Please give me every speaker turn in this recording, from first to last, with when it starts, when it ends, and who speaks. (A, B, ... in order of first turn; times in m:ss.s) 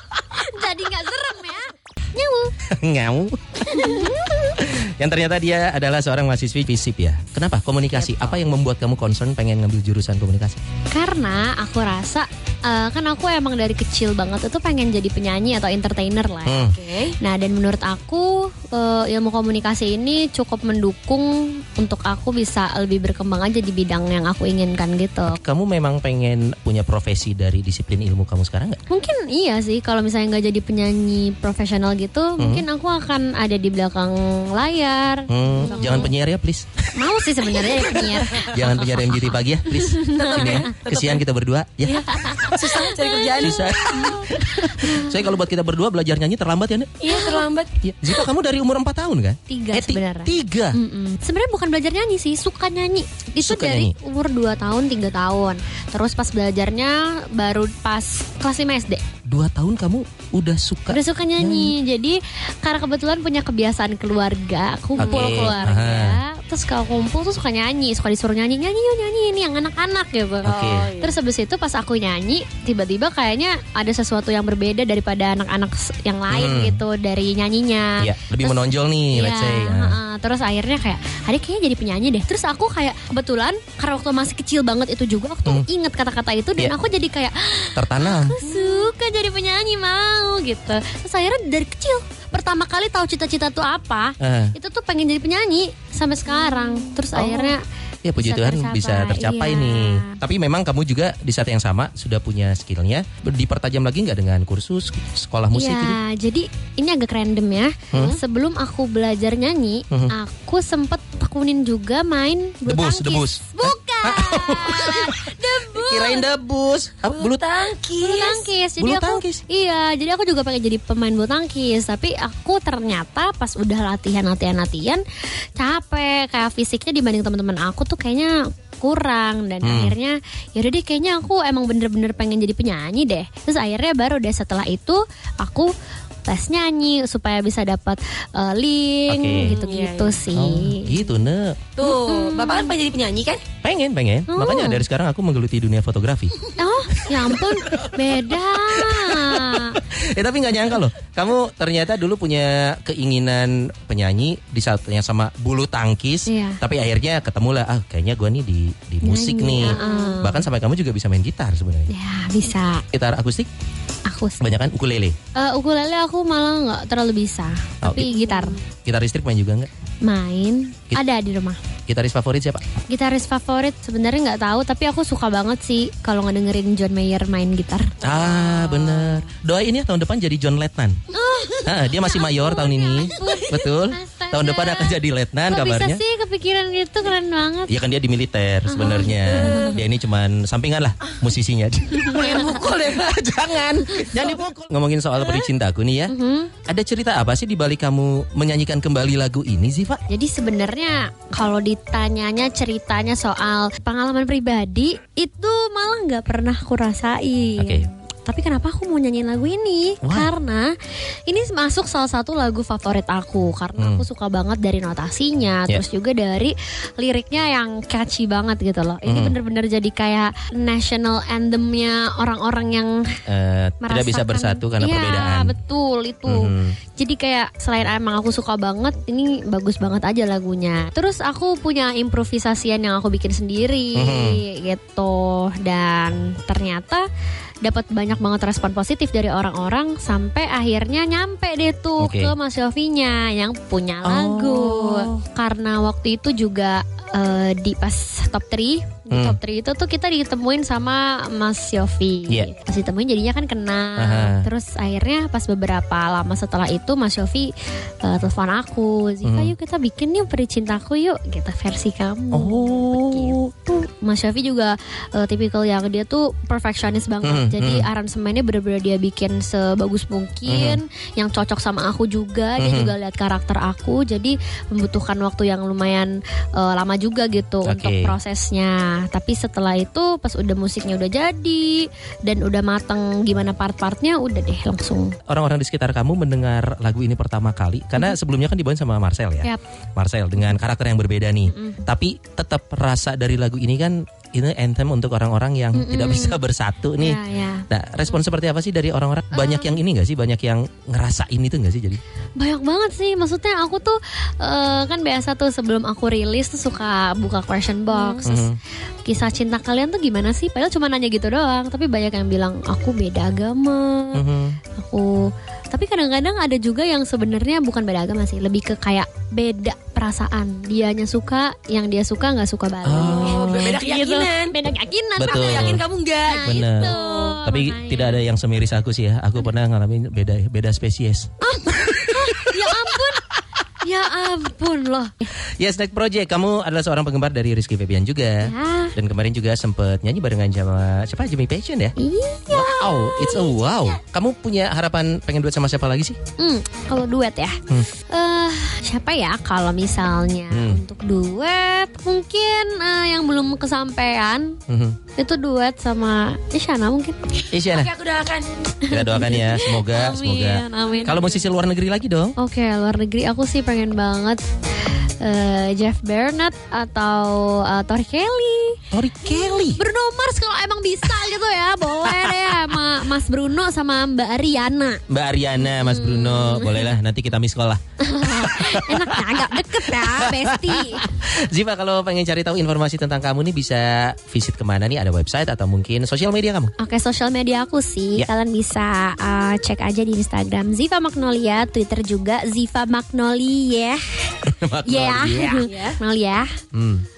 0:00.3-0:02.5 A
0:02.8-0:10.6 B
0:03.7-0:04.5 A
0:08.0-0:08.3 C
0:10.9-0:25.4 A
0:16.4-0:16.8 B
0:16.7-0:17.1 C
0:25.3-0:28.8 B
0:28.9-0:36.1 A
0:32.4-0:32.7 B
0:35.3-0:36.8 B
0:35.6-0:36.1 C
0:36.9-0:39.0 A
0:37.7-0:42.8 B
0:38.2-0:39.0 C
0:39.7-0:40.7 A
0:40.1-0:41.2 C
0:41.8-0:44.1 C
0:42.0-0:45.3 A
0:43.4-0:47.1 B
0:47.0-0:47.8 C
0:47.1-0:47.4 A
0:47.8-0:50.8 B
0:49.5-0:59.0 A
0:53.4-0:53.9 B
0:59.3-1:01.7 B
1:00.9-1:37.6 A
1:05.0-1:05.6 C
1:05.0-1:06.2 B
1:10.4-1:10.9 B
1:10.4-1:11.2 C
1:16.3-1:16.8 B
1:18.0-1:20.0 B
1:27.8-1:28.4 B
1:34.2-1:34.5 B
1:37.1-1:46.0 B
1:38.2-1:40.2 A
1:45.5-1:56.3 A
1:47.9-1:48.2 B
1:52.6-1:57.4 B
1:57.1-1:58.5 C
1:58.0-2:05.0 A
1:58.8-1:59.4 B
2:05.6-2:15.7 A
2:09.6-2:10.0 B
2:16.2-2:21.0 A
2:19.1-2:19.6 B
2:19.3-2:20.3 C
2:20.3-2:21.6 B
2:21.8-2:23.4 C
2:21.8-2:22.7 A
2:23.6-2:26.3 B
2:24.3-2:24.8 A
2:26.5-2:29.8 A
2:27.0-2:41.9 B
2:36.3-2:36.6 A
2:39.0-2:40.4 A
2:39.6-2:40.3 C
2:41.9-2:42.8 A
2:42.9-2:43.5 B
2:44.0-2:44.5 A
2:44.4-2:45.2 B
2:45.3-2:48.6 A
2:47.8-2:48.2 B
2:48.8-2:49.7 B
2:50.0-2:51.6 A
2:51.9-2:52.6 B
2:52.9-2:58.1 A
2:58.0-3:01.0 B
2:58.0-2:59.2 C
3:01.1-3:07.8 A
3:01.6-3:06.0 B
3:03.2-3:03.4 C
3:07.7-3:16.1 B
3:08.6-3:09.8 A
3:12.1-3:13.1 C
3:12.1-3:12.6 A
3:14.0-3:14.2 A
3:16.1-3:16.5 A
3:16.7-3:20.0 B
3:20.1-3:30.8 A
3:27.6-3:27.9 B
3:30.0-3:30.3 B
3:31.3-3:43.1 A
3:33.8-3:34.0 B
3:39.0-3:39.4 B
3:43.3-3:45.5 B
3:43.8-3:57.0 A
3:46.2-3:46.8 B
3:53.9-3:54.4 B
3:57.6-4:45.2 A
4:02.0-4:02.3 B
4:04.0-4:05.2 B
4:09.1-4:09.4 B
4:14.0-4:14.5 B
4:19.2-4:19.5 B
4:22.3-4:23.7 B
4:27.2-4:27.9 B
4:30.5-4:30.8 B
4:32.6-4:32.9 B
4:37.6-4:38.2 B
4:45.3-5:02.0 B
4:51.5-4:51.8 A
4:55.7-4:56.4 A
4:57.0-4:57.6 A
4:59.3-4:59.8 A
5:02.4-5:08.5 A
5:07.9-5:08.3 C
5:08.2-5:08.6 B
5:09.0-5:14.2 A
5:14.1-5:14.6 B
5:14.7-5:28.2 A
5:22.8-5:23.7 B
5:23.1-5:24.6 C
5:25.2-5:25.8 B
5:25.2-5:27.4 C
5:26.4-5:33.2 B
5:31.4-5:33.3 A
5:33.8-5:35.3 A
5:35.6-5:41.9 B
5:38.4-5:38.9 A
5:42.0-5:43.8 A
5:42.5-5:46.2 B
5:46.4-5:54.6 A
5:50.5-5:50.8 B
5:54.7-5:55.0 B
5:55.2-5:57.2 A
5:57.5-5:57.9 B
5:57.6-5:58.5 C
5:58.8-6:01.5 A
5:58.9-6:02.3 B
6:02.4-6:04.4 A
6:05.2-6:15.0 A
6:08.9-6:09.8 B
6:12.0-6:12.8 B
6:15.1-6:26.7 B
6:15.6-6:17.0 A
6:18.0-6:21.1 A
6:26.8-6:34.3 A
6:34.5-6:35.7 B
6:34.8-6:36.5 A
6:35.6-6:36.0 C
6:36.7-6:37.0 B